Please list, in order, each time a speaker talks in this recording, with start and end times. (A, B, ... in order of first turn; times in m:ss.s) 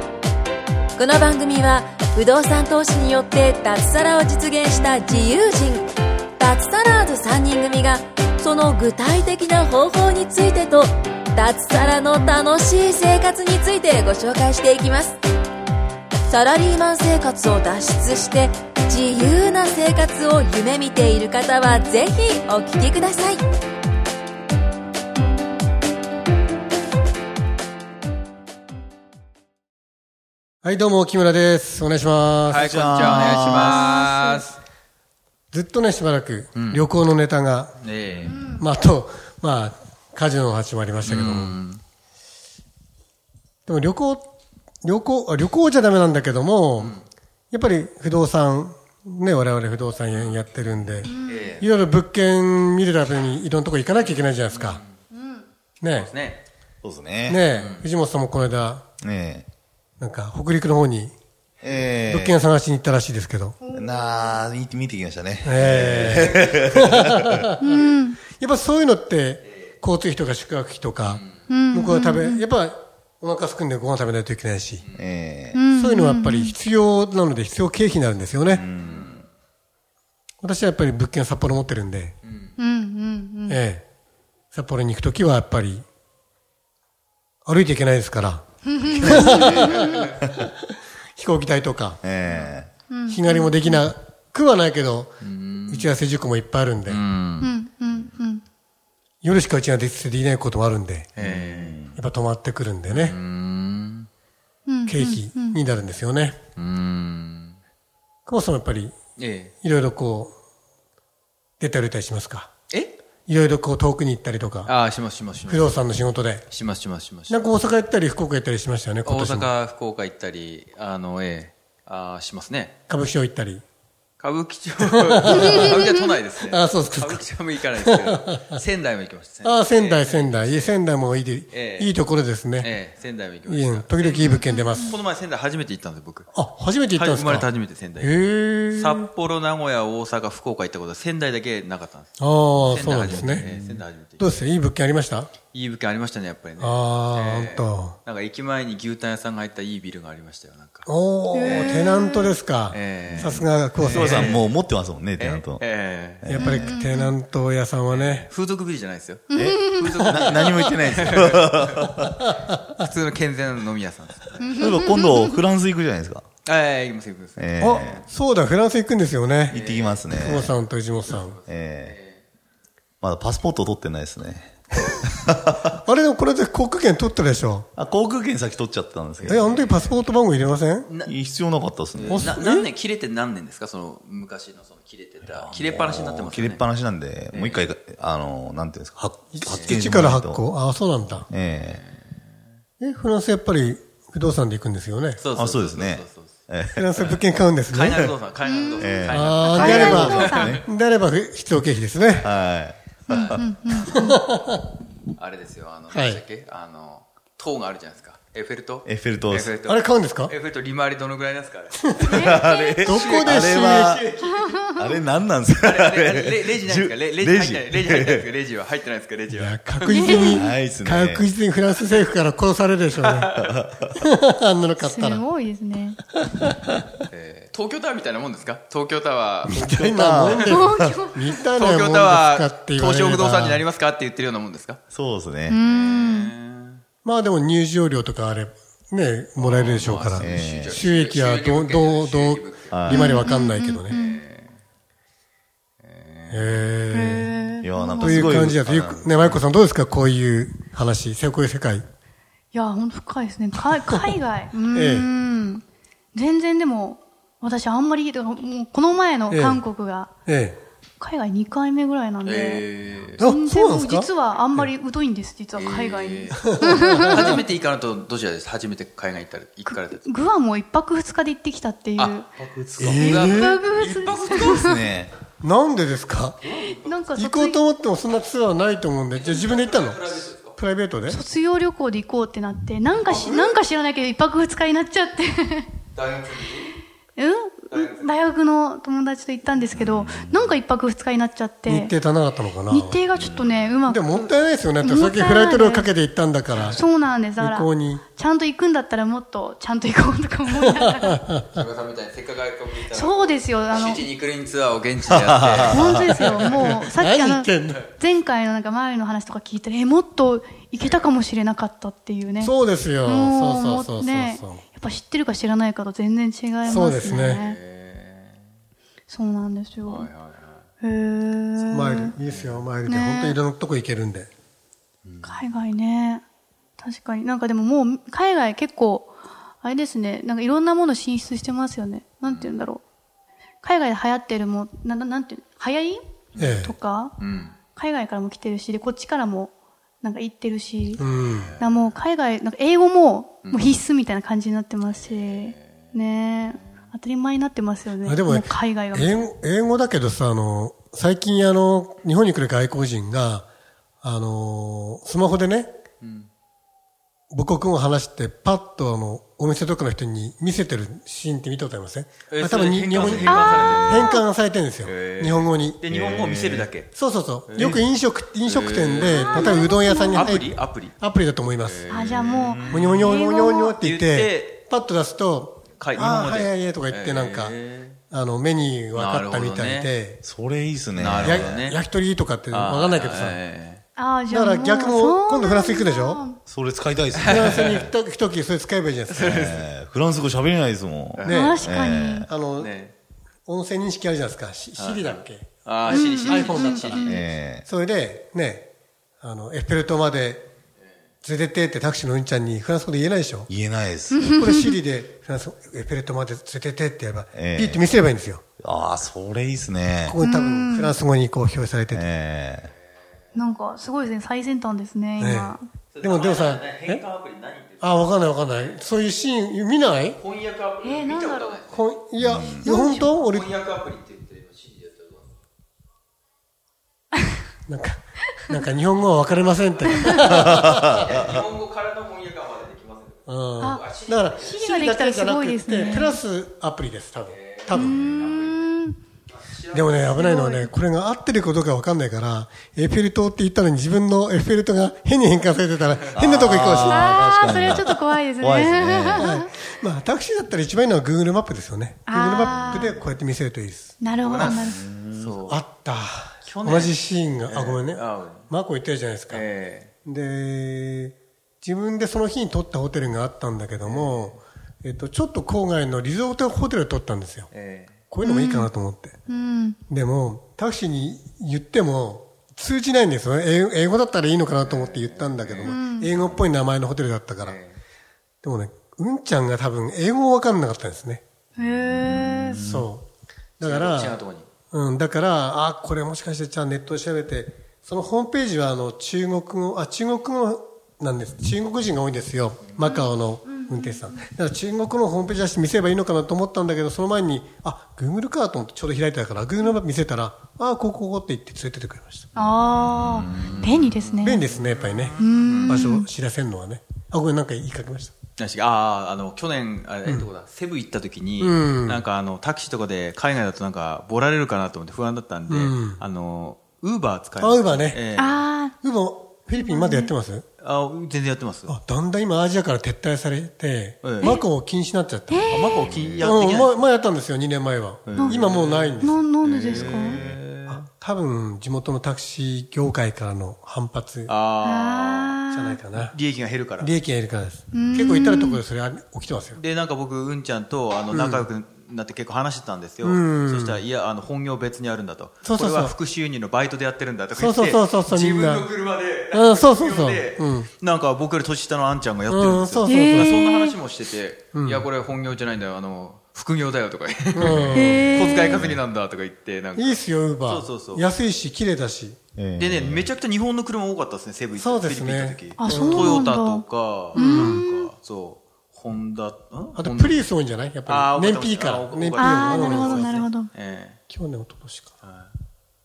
0:01.0-0:05.9 A
0:06.4-0:15.2 A
0:16.3-0:23.4 A
0:30.6-0:32.9 B
0:32.5-0:34.6 C
0:32.5-0:34.0 D
0:32.9-0:34.5 E
0:35.5-0:37.7 B
0:36.6-0:36.9 C
0:37.8-0:38.4 C
0:38.3-0:38.7 E
0:38.5-0:41.6 B
0:41.0-0:41.8 C
0:43.7-0:44.3 B
0:44.8-0:47.0 B
0:47.5-0:54.8 B
0:50.1-0:51.7 C
0:51.1-0:51.5 E
0:54.0-0:54.9 C
0:55.1-0:55.4 E
0:55.8-0:56.1 B
0:55.9-0:56.4 C
0:56.8-0:57.4 D
0:57.3-0:58.8 B
0:57.5-0:57.8 C
0:59.0-0:59.5 D
1:00.0-1:01.1 B
1:01.6-1:02.4 D
1:01.9-1:03.6 B
1:03.6-1:04.4 E
1:03.7-1:07.1 D
1:05.4-1:14.9 B
1:06.0-1:06.8 C
1:07.6-1:08.2 E
1:11.0-1:11.4 C
1:11.5-1:12.4 E
1:14.8-1:15.1 C
1:15.0-1:15.6 D
1:15.5-1:16.6 E
1:15.7-1:18.7 B
1:18.5-1:19.2 D
1:18.6-1:19.3 C
1:20.4-1:22.2 B
1:22.2-1:22.6 C
1:22.6-1:23.6 E
1:23.5-1:23.8 B
1:24.5-1:25.8 B
1:27.5-1:30.4 B
1:28.7-1:29.9 E
1:28.8-1:30.5 D
1:31.2-1:32.0 B
1:32.0-1:32.7 D
1:32.9-1:33.8 E
1:33.1-1:35.2 B
1:35.2-1:36.0 C
1:35.7-1:37.0 B
1:36.8-1:37.5 C
1:37.4-1:38.4 E
1:39.2-1:41.2 B
1:41.2-1:41.8 C
1:41.2-1:42.0 D
1:42.0-1:43.2 B
1:42.9-1:44.1 C
1:44.7-1:45.6 E
1:44.9-1:46.4 B
1:46.6-1:47.6 C
1:48.3-1:49.0 B
1:49.2-1:49.5 C
1:49.6-1:50.3 B
1:51.6-1:52.5 B
1:53.3-1:54.7 B
1:54.6-1:55.8 C
1:55.5-1:56.4 B
1:56.5-1:57.5 C
1:57.3-1:59.5 B
1:59.0-2:02.8 C
2:02.9-2:03.6 B
2:04.2-2:10.8 C
2:04.8-2:05.9 B
2:06.4-2:08.6 B
2:09.4-2:12.7 B
2:11.5-2:12.0 C
2:12.6-2:16.3 C
2:13.5-2:15.0 B
2:14.2-2:14.9 E
2:16.3-2:19.1 B
2:17.0-2:18.2 C
2:18.7-2:24.4 C
2:22.2-2:25.3 B
2:23.2-2:23.6 D
2:25.5-2:30.9 C
2:26.6-2:28.0 B
2:30.9-2:34.4 B
2:31.3-2:32.4 E
2:31.4-2:32.1 C
2:32.7-2:34.6 C
2:33.2-2:35.7 D
2:35.2-2:36.3 C
2:36.2-2:36.8 D
2:36.3-2:38.3 B
2:36.4-2:37.2 E
2:37.9-2:41.9 C
2:39.3-2:40.6 E
2:39.4-2:42.3 D
2:42.0-2:42.8 B
2:42.7-2:44.7 C
2:44.4-2:45.4 E
2:44.5-2:46.3 D
2:46.4-2:48.1 C
2:47.4-2:48.0 D
2:47.6-2:51.4 B
2:49.5-2:50.5 D
2:49.5-2:52.2 C
2:51.5-2:52.0 D
2:53.0-2:55.7 D
2:55.6-2:57.7 B
2:57.8-2:59.7 D
2:59.2-3:00.0 C
2:59.2-3:00.9 B
3:00.8-3:01.1 C
3:01.0-3:02.4 D
3:01.9-3:06.7 C
3:02.1-3:02.7 B
3:05.3-3:10.4 D
3:07.3-3:07.7 C
3:09.3-3:11.3 B
3:09.5-3:09.8 C
3:11.3-3:11.8 D
3:11.6-3:12.2 C
3:12.8-3:15.2 B
3:15.2-3:16.3 C
3:15.4-3:17.2 D
3:16.7-3:18.2 B
3:17.7-3:20.6 C
3:18.4-3:18.9 E
3:18.8-3:20.6 D
3:19.1-3:22.3 B
3:19.4-3:20.5 E
3:22.2-3:23.4 D
3:23.1-3:23.8 C
3:23.1-3:24.2 E
3:23.9-3:24.7 B
3:25.2-3:34.7 C
3:25.9-3:26.2 B
3:28.8-3:29.5 D
3:29.6-3:30.4 B
3:31.8-3:34.0 B
3:32.0-3:32.8 E
3:32.1-3:34.1 D
3:34.5-3:35.0 E
3:34.7-3:38.3 D
3:35.6-3:40.2 C
3:39.3-3:43.3 B
3:39.9-3:40.4 E
3:40.3-3:41.3 D
3:43.0-3:43.5 C
3:43.5-3:43.8 D
3:44.0-3:45.2 B
3:44.8-3:46.0 E
3:46.2-3:46.8 B
3:47.1-3:49.7 C
3:49.4-3:53.6 B
3:49.6-3:50.9 D
3:50.2-3:50.5 C
3:50.5-3:51.3 E
3:51.5-3:54.8 C
3:54.9-3:55.6 D
3:55.5-3:56.3 E
3:55.6-3:56.8 C
3:57.0-4:04.0 B
3:59.4-4:02.8 C
4:00.2-4:00.8 D
4:02.7-4:03.2 D
4:02.9-4:04.2 E
4:03.9-4:04.5 C
4:05.8-4:06.7 C
4:06.3-4:07.3 B
4:06.9-4:08.4 E
4:07.6-4:09.4 D
4:08.0-4:11.8 B
4:12.5-4:15.6 E
4:13.9-4:14.1 B
4:14.7-4:15.1 B
4:16.1-4:20.1 E
4:19.3-4:19.6 B
4:20.3-4:20.6 B
4:21.0-4:22.7 E
4:22.2-4:23.2 C
4:23.2-4:24.7 B
4:23.2-4:27.4 E
4:25.5-4:30.2 C
4:26.4-4:27.4 B
4:29.7-4:32.3 E
4:32.4-4:33.1 D
4:32.8-4:33.6 B
4:32.8-4:34.9 E
4:32.9-4:34.8 C
4:34.3-4:35.1 D
4:35.4-4:36.4 B
4:36.4-4:37.1 C
4:36.5-4:37.6 E
4:37.2-4:41.2 B
4:39.1-4:40.6 C
4:41.1-4:45.7 E
4:43.0-4:43.6 C
4:45.9-4:46.8 C
4:47.2-4:52.0 E
4:47.7-4:48.1 C
4:49.8-4:50.6 D
4:51.7-4:53.0 B
4:52.7-4:55.9 E
4:53.2-4:53.7 D
4:53.9-4:56.8 B
4:56.5-4:56.8 C
4:56.6-5:01.2 E
4:57.4-4:58.0 B
5:00.6-5:01.6 B
5:01.5-5:06.5 C
5:02.9-5:04.0 E
5:05.1-5:06.3 D
5:05.7-5:17.6 E
5:06.4-5:07.8 B
5:12.4-5:14.6 B
5:16.6-5:17.4 B
5:16.9-5:18.4 C
5:19.1-5:20.1 E
5:19.9-5:20.6 C
5:20.8-5:22.2 E
5:21.6-5:24.3 B
5:22.2-5:22.7 C
5:22.8-5:23.4 E
5:25.0-5:25.5 C
5:25.2-5:26.2 E
5:26.8-5:32.8 E
5:32.2-5:32.6 C
5:33.6-5:36.0 E
5:36.3-5:37.6 C
5:36.4-5:36.8 B
5:36.5-5:37.2 E
5:37.8-5:41.0 E
5:41.0-5:41.6 B
5:41.0-5:42.0 C
5:41.6-5:49.3 E
5:43.4-5:43.8 C
5:45.0-5:46.8 C
5:48.0-5:53.5 B
5:54.0-5:55.7 B
5:56.0-5:56.3 C
5:57.3-6:05.8 B
6:02.3-6:04.2 C
6:02.9-6:04.0 D
6:03.1-6:04.2 E
6:04.8-6:06.9 C
6:05.9-6:06.7 D
6:06.9-6:11.9 B
6:07.5-6:07.9 C
6:08.5-6:10.9 C
6:09.1-6:10.3 E
6:11.6-6:13.1 C
6:11.9-6:13.8 E
6:12.3-6:12.9 D
6:12.7-6:17.6 B
6:13.8-6:14.6 C
6:15.8-6:18.0 C
6:18.1-6:20.2 B
6:19.0-6:19.9 C
6:20.2-6:21.6 D
6:20.9-6:21.8 C
6:21.2-6:23.4 B
6:22.5-6:23.8 C
6:24.0-6:26.4 E
6:24.3-6:26.2 B
6:26.5-6:27.8 D
6:27.2-6:27.9 C
6:27.2-6:29.5 B
6:29.1-6:29.7 C
6:29.2-6:32.3 D
6:31.2-6:31.6 C
6:31.2-6:32.8 B
6:31.3-6:32.3 E
6:32.6-6:32.9 C
6:33.5-6:38.7 B
6:34.8-6:37.2 C
6:35.9-6:37.2 E
6:37.0-6:37.6 D
6:39.2-6:40.4 B
6:41.2-6:43.5 B
6:43.5-6:44.4 D
6:44.1-6:44.8 E
6:44.3-6:48.4 B
6:47.4-6:47.8 D
6:48.6-6:50.2 D
6:50.0-6:52.0 B
6:50.2-6:51.0 E
6:51.9-6:52.7 D
6:53.3-6:55.7 E
6:55.2-6:57.0 B
6:55.9-6:58.8 C
6:57.8-7:00.2 B
7:00.2-7:01.9 C
7:00.8-7:01.6 E
7:01.7-7:03.5 B
7:02.2-7:02.6 D
7:02.6-7:03.1 E
7:03.1-7:05.3 C
7:07.7-7:11.1 B
7:09.0-7:14.8 C
7:10.0-7:10.4 E
7:10.5-7:11.4 D
7:13.3-7:18.1 B
7:13.6-7:16.2 E
7:15.7-7:16.0 C
7:17.3-7:18.7 C
7:17.7-7:19.0 E
7:19.3-7:20.1 C
7:19.7-7:27.8 B
7:20.1-7:20.7 E
7:26.1-7:29.3 D
7:26.9-7:29.5 E
7:29.2-7:34.0 B
7:29.5-7:29.8 C
7:32.1-7:33.0 E
7:32.5-7:33.1 D
7:34.0-7:34.8 E
7:34.2-7:35.6 C
7:34.2-7:35.4 D
7:35.5-7:39.5 B
7:36.4-7:38.5 C
7:39.3-7:39.9 C
7:40.0-7:47.5 B
7:43.8-7:44.4 C
7:47.5-7:48.0 C
7:48.1-7:49.2 B
7:48.2-7:48.7 E
7:49.3-7:49.8 E
7:49.9-7:57.6 B
7:54.6-7:56.4 C
7:55.7-7:56.1 E
7:57.4-7:57.8 C
7:58.4-8:01.2 B
8:01.6-8:02.6 E
8:01.9-8:02.9 D
8:02.6-8:03.1 B
8:03.6-8:04.2 B
8:03.6-8:04.5 C
8:04.7-8:22.3 B
8:12.8-8:14.2 E
8:22.4-8:24.4 E
8:22.4-8:25.9 C
8:22.8-8:23.7 D
8:24.2-8:28.1 B
8:25.2-8:26.1 E
8:28.4-8:38.5 C
8:31.4-8:32.0 B
8:35.5-8:36.0 B
8:37.4-8:38.0 B
8:38.2-8:38.8 E
8:38.8-8:40.5 B
8:39.5-8:40.1 E
8:40.6-8:41.8 C
8:41.7-8:45.6 B
8:44.0-8:44.4 C
8:45.3-8:45.9 E
8:45.5-8:46.8 C
8:45.8-8:46.3 D
8:46.2-8:49.2 B
8:48.1-8:50.9 C
8:48.2-8:48.5 E
8:49.0-8:50.2 E
8:49.6-8:50.4 D
8:50.7-8:54.3 B
8:54.3-8:55.4 C
8:54.6-8:55.8 E
8:55.5-8:56.2 B
8:56.0-8:56.9 C
8:56.8-8:59.6 B
8:57.7-8:58.6 E
8:59.6-9:21.1 C
9:01.1-9:01.5 B
9:03.0-9:03.8 B
9:05.4-9:06.0 B
9:07.4-9:08.7 B
9:09.3-9:10.7 B
9:12.3-9:13.4 B
9:12.8-9:13.8 E
9:14.5-9:14.9 B
9:17.3-9:18.2 B
9:17.4-9:18.8 D
9:17.7-9:18.6 E
9:19.8-9:22.2 B
9:22.4-9:23.1 D
9:22.6-9:30.3 C
9:24.6-9:26.3 B
9:25.6-9:27.9 E
9:27.2-9:27.6 B
9:29.8-9:33.3 B
9:30.9-9:34.0 C
9:32.2-9:33.5 E
9:34.1-9:35.0 B
9:35.0-9:35.3 C